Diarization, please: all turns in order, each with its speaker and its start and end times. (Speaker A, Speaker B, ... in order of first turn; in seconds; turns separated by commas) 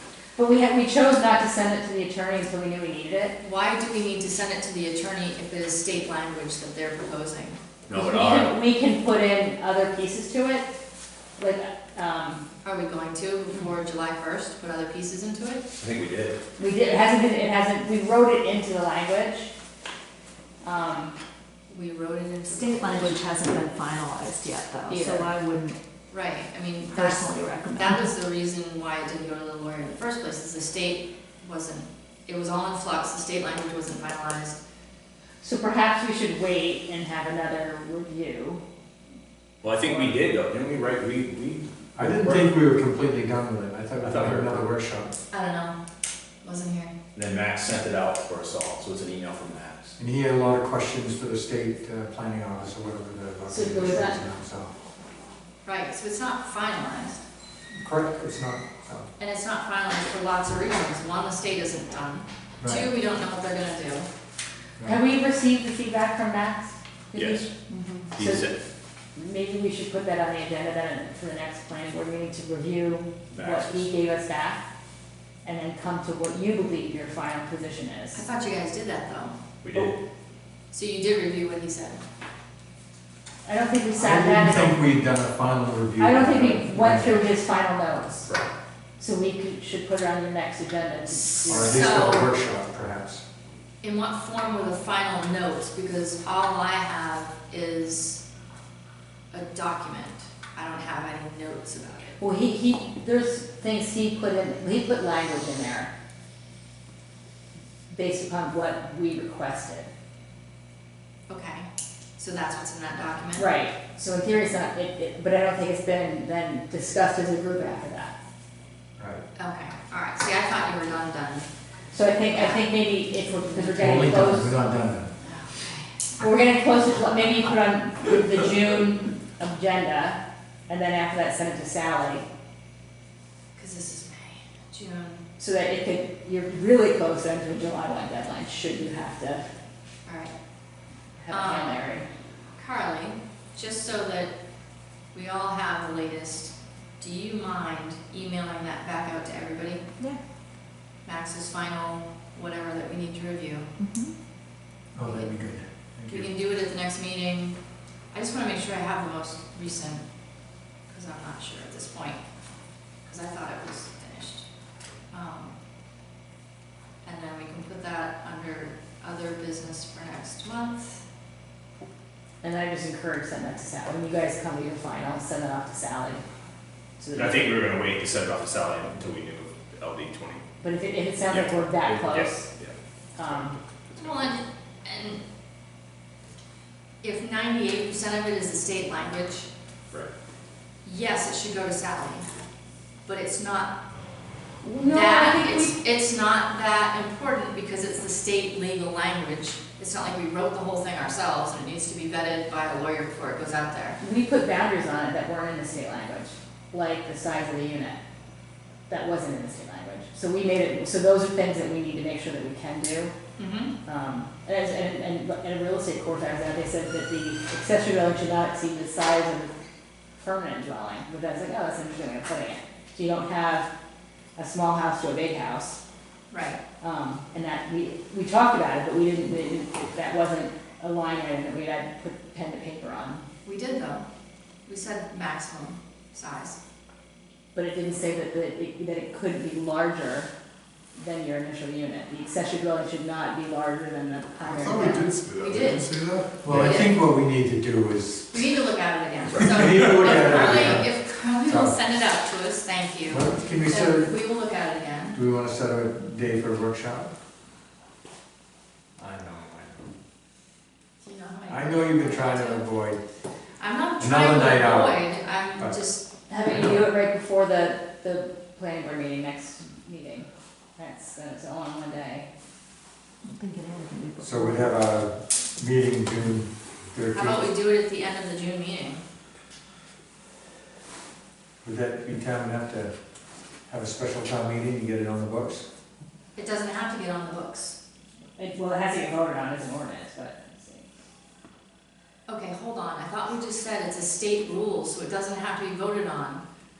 Speaker A: 0.3-3.4, Speaker B: 3.4-7.6, Speaker C: 7.9-8.5, Speaker A: 7.9-10.7, Speaker A: 11.4-12.5, Speaker B: 12.6-15.6, Speaker C: 15.8-16.4, Speaker A: 16.6-19.5, Speaker A: 20.6-21.2, Speaker B: 21.7-23.2, Speaker D: 22.4-25.8, Speaker B: 24.9-25.3, Speaker B: 26.1-34.6, Speaker D: 26.9-28.1, Speaker A: 35.4-38.6, Speaker C: 39.6-42.5, Speaker E: 42.0-45.1, Speaker C: 44.0-44.7, Speaker B: 45.3-45.8, Speaker B: 46.4-46.9, Speaker C: 47.1-49.9, Speaker E: 50.0-54.7, Speaker A: 53.5-54.2, Speaker B: 55.6-57.2, Speaker E: 57.7-59.1, Speaker B: 59.2-64.1, Speaker E: 62.6-62.9, Speaker A: 64.8-67.5, Speaker C: 67.1-67.5, Speaker D: 67.7-68.1, Speaker C: 68.1-68.6, Speaker A: 68.2-68.5, Speaker A: 69.1-74.6, Speaker C: 73.3-73.9, Speaker A: 75.4-78.2, Speaker B: 78.1-79.4, Speaker C: 79.6-80.0, Speaker B: 80.7-82.0, Speaker A: 83.4-84.8, Speaker E: 84.0-87.2, Speaker A: 86.0-88.3, Speaker A: 89.0-92.0, Speaker B: 91.1-92.3, Speaker E: 91.5-93.2, Speaker B: 93.8-98.2, Speaker B: 99.3-102.2, Speaker A: 102.2-105.9, Speaker A: 107.9-109.9, Speaker B: 111.3-111.7, Speaker B: 112.2-113.5, Speaker A: 113.4-118.1, Speaker E: 119.0-119.2, Speaker B: 119.4-121.5, Speaker A: 121.9-124.6, Speaker B: 122.3-122.7, Speaker E: 123.8-125.1, Speaker B: 125.2-125.9, Speaker A: 126.2-132.3, Speaker B: 133.6-135.2, Speaker A: 135.4-139.5, Speaker B: 140.1-140.3, Speaker A: 141.2-142.1, Speaker B: 141.3-141.8, Speaker B: 142.6-144.3, Speaker B: 145.1-149.9, Speaker B: 151.1-153.7, Speaker D: 153.8-154.1, Speaker E: 154.9-156.3, Speaker B: 155.0-155.3, Speaker B: 156.1-157.6, Speaker B: 158.1-160.0, Speaker B: 160.9-162.2, Speaker B: 163.1-164.4, Speaker B: 165.1-165.6, Speaker B: 167.0-171.0, Speaker A: 172.4-176.2, Speaker A: 177.0-177.6, Speaker C: 177.1-180.4, Speaker A: 180.6-182.5, Speaker C: 181.3-182.7, Speaker A: 183.2-183.6, Speaker C: 183.9-184.3, Speaker B: 184.0-185.2, Speaker B: 187.0-189.5, Speaker B: 190.8-192.3, Speaker B: 193.1-193.7, Speaker A: 194.6-195.8, Speaker B: 194.8-204.0, Speaker A: 204.0-208.0, Speaker A: 208.9-213.1, Speaker B: 213.4-213.7, Speaker A: 213.9-219.5, Speaker A: 220.2-223.7, Speaker A: 224.4-225.8, Speaker B: 226.3-226.6, Speaker A: 226.8-233.3, Speaker B: 233.4-234.1, Speaker B: 234.7-236.6, Speaker A: 237.5-240.3, Speaker A: 240.9-245.2, Speaker B: 244.4-247.0, Speaker E: 244.8-248.4, Speaker C: 246.5-246.8, Speaker B: 248.3-255.2, Speaker E: 249.4-250.9, Speaker C: 250.1-250.8, Speaker E: 251.5-251.8, Speaker E: 253.1-254.1, Speaker E: 255.1-257.1, Speaker E: 259.1-259.8, Speaker B: 261.0-262.7, Speaker E: 261.5-263.0, Speaker B: 263.6-266.1, Speaker E: 264.0-265.0, Speaker A: 266.3-272.3, Speaker E: 266.5-266.8, Speaker D: 273.2-274.8, Speaker E: 274.2-277.4, Speaker B: 277.1-279.0, Speaker E: 281.6-282.9, Speaker E: 283.7-285.6, Speaker B: 286.4-287.8, Speaker A: 288.4-290.9, Speaker B: 292.3-296.4